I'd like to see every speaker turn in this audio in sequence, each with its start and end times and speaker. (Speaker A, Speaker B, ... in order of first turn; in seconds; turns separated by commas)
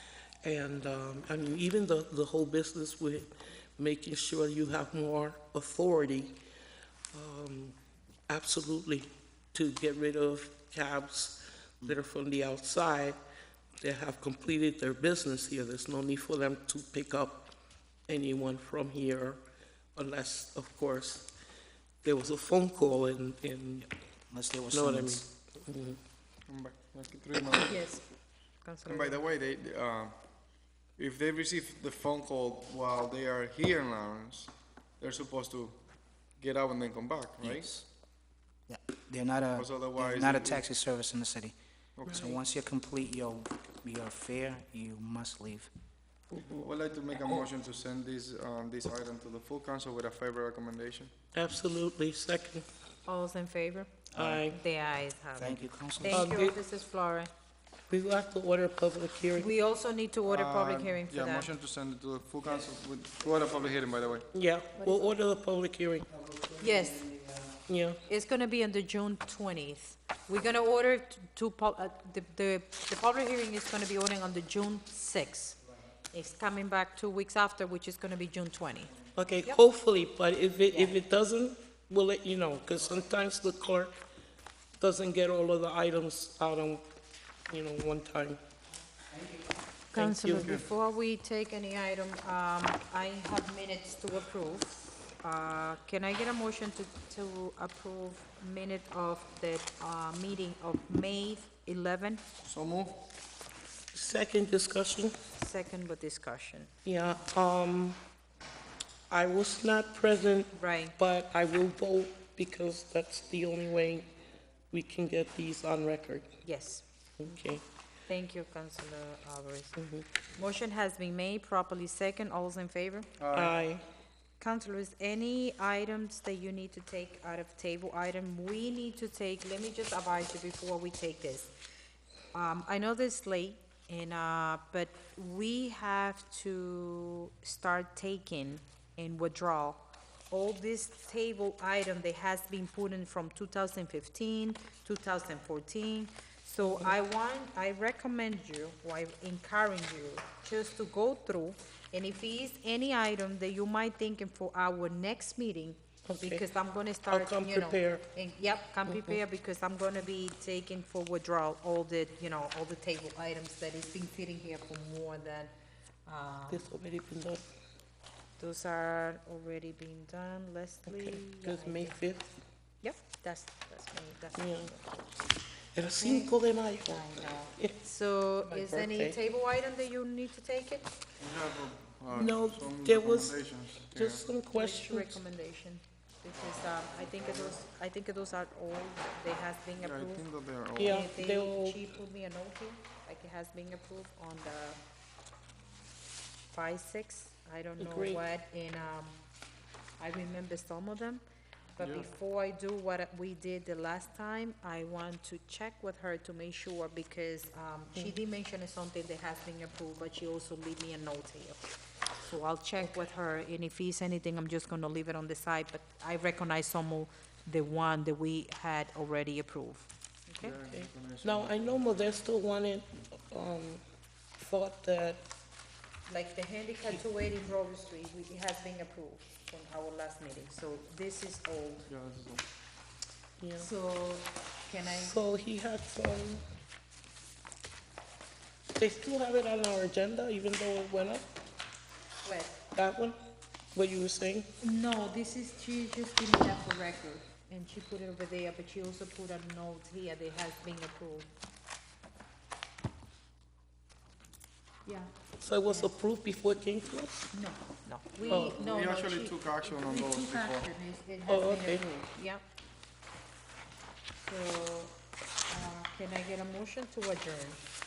Speaker A: 0.4-6.4, Speaker A: 7.1-7.8, Speaker A: 8.3-13.2, Speaker A: 13.8-17.5, Speaker A: 18.1-19.4, Speaker A: 19.9-21.3, Speaker A: 22.0-23.9, Speaker B: 24.1-25.3, Speaker A: 24.7-26.0, Speaker C: 26.5-27.8, Speaker D: 27.5-28.1, Speaker D: 28.6-29.2, Speaker C: 28.9-30.2, Speaker C: 31.0-35.8, Speaker C: 36.4-37.7, Speaker B: 37.4-37.9, Speaker B: 38.7-41.5, Speaker C: 39.6-40.7, Speaker C: 42.0-42.4, Speaker A: 42.1-42.4, Speaker B: 42.1-45.7, Speaker A: 46.3-46.6, Speaker C: 46.5-51.1, Speaker A: 51.4-52.7, Speaker D: 53.1-57.3, Speaker A: 54.1-54.6, Speaker B: 54.2-54.5, Speaker B: 55.4-56.2, Speaker A: 56.1-56.6, Speaker A: 57.9-59.5, Speaker D: 59.4-61.5, Speaker C: 60.2-64.3, Speaker A: 64.3-66.1, Speaker B: 66.1-67.5, Speaker D: 66.6-67.1, Speaker A: 67.7-68.0, Speaker D: 68.1-75.6, Speaker D: 76.1-78.9, Speaker A: 79.2-84.0, Speaker D: 80.7-81.0, Speaker A: 84.8-86.9, Speaker A: 87.5-88.4, Speaker D: 89.9-102.2, Speaker A: 90.0-90.6, Speaker C: 102.4-103.0, Speaker A: 103.9-105.2, Speaker D: 105.4-106.7, Speaker A: 106.8-108.0, Speaker A: 109.1-114.1, Speaker D: 110.5-111.0, Speaker A: 114.7-116.4, Speaker D: 116.4-117.3, Speaker A: 117.2-117.7, Speaker D: 118.1-119.8, Speaker A: 119.8-120.1, Speaker D: 120.3-123.2, Speaker C: 123.2-123.6, Speaker A: 123.3-123.8, Speaker D: 124.4-131.6, Speaker D: 132.3-165.5, Speaker A: 146.7-146.9, Speaker A: 156.1-156.4, Speaker A: 157.1-158.1, Speaker A: 158.9-159.2, Speaker D: 166.1-166.7, Speaker A: 166.5-167.4, Speaker D: 168.4-172.0, Speaker A: 170.9-172.3, Speaker D: 172.8-174.9, Speaker A: 174.4-174.7, Speaker A: 175.8-177.8, Speaker D: 176.0-180.9, Speaker A: 178.4-179.2, Speaker C: 181.2-184.3, Speaker A: 182.1-185.2, Speaker D: 184.5-194.8, Speaker C: 186.4-187.6, Speaker C: 189.8-191.1, Speaker A: 190.8-191.8, Speaker D: 196.5-199.2, Speaker A: 197.8-198.2, Speaker D: 200.0-201.2, Speaker D: 201.8-220.6, Speaker C: 201.8-202.1, Speaker C: 220.4-221.9, Speaker A: 220.7-223.8, Speaker A: 224.4-225.2, Speaker D: 226.1-231.9, Speaker C: 231.9-232.4, Speaker A: 233.4-233.7, Speaker D: 233.6-235.2, Speaker A: 235.0-236.4, Speaker A: 238.8-241.3, Speaker D: 242.2-242.6, Speaker A: 242.7-243.2, Speaker A: 243.8-244.5, Speaker D: 244.6-251.3, Speaker D: 254.8-255.1, Speaker A: 255.4-257.3, Speaker D: 255.7-255.9, Speaker D: 257.3-262.4, Speaker C: 258.2-260.7, Speaker A: 258.3-258.6, Speaker A: 261.3-262.1, Speaker D: 264.2-265.0, Speaker D: 265.5-267.6